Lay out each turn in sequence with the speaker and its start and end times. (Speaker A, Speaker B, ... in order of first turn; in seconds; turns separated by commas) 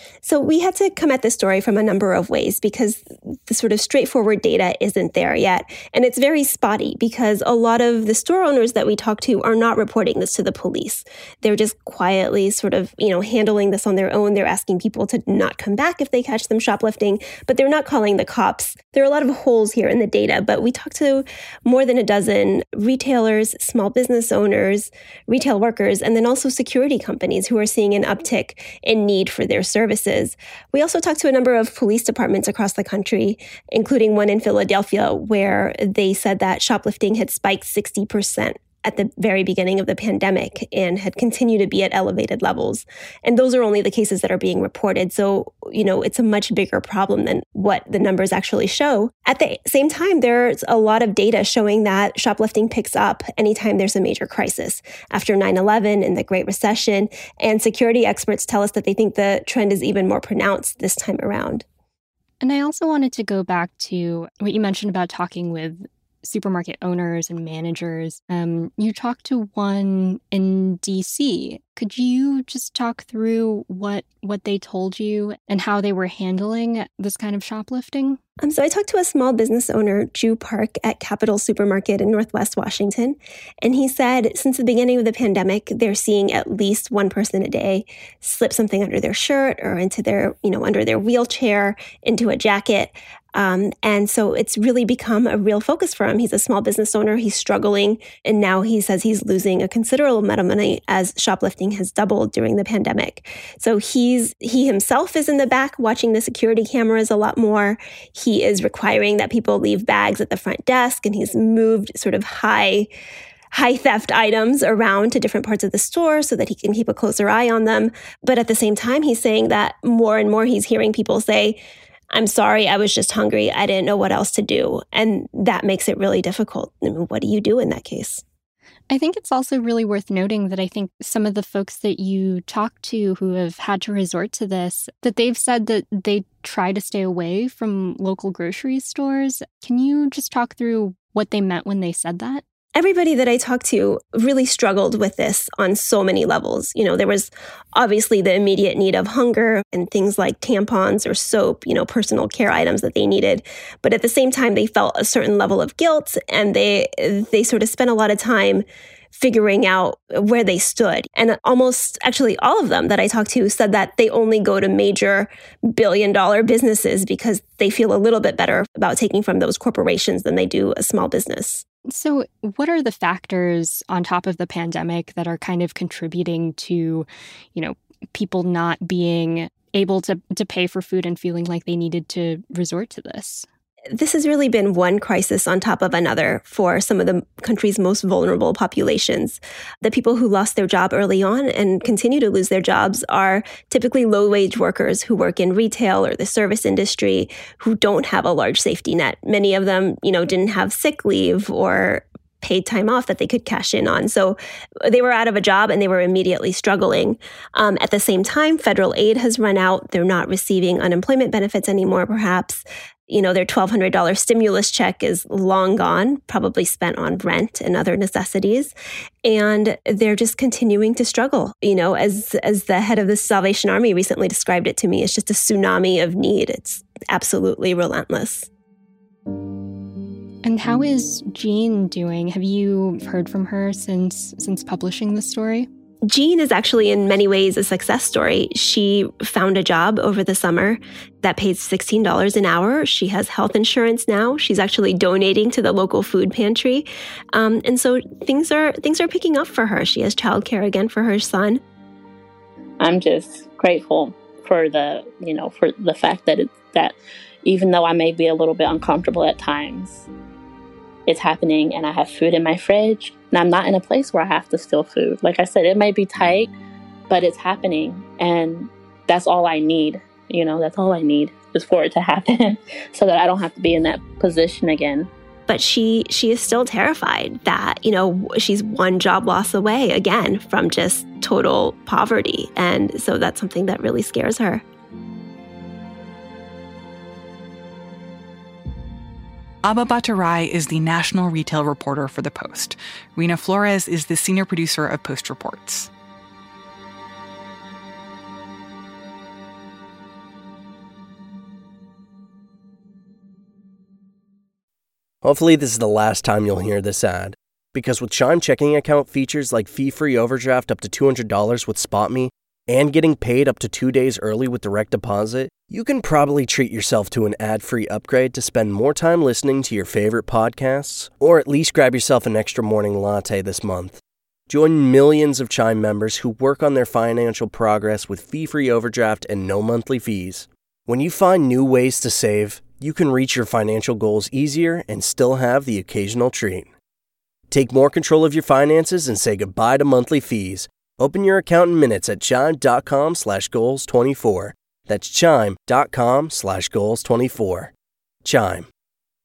Speaker A: 0.2-61.6, Speaker B: 62.4-78.2, Speaker A: 78.4-112.9, Speaker A: 113.5-121.6, Speaker A: 122.1-128.2, Speaker B: 128.9-142.4, Speaker A: 142.8-171.7, Speaker B: 171.9-183.5, Speaker A: 183.9-228.5, Speaker B: 230.4-235.7, Speaker A: 236.1-251.6, Speaker C: 252.8-260.1, Speaker C: 261.1-266.5, Speaker C: 267.1-275.1, Speaker A: 275.5-284.6, Speaker D: 289.6-295.9, Speaker E: 305.2-336.7, Speaker E: 337.5-347.7, Speaker E: 348.2-348.7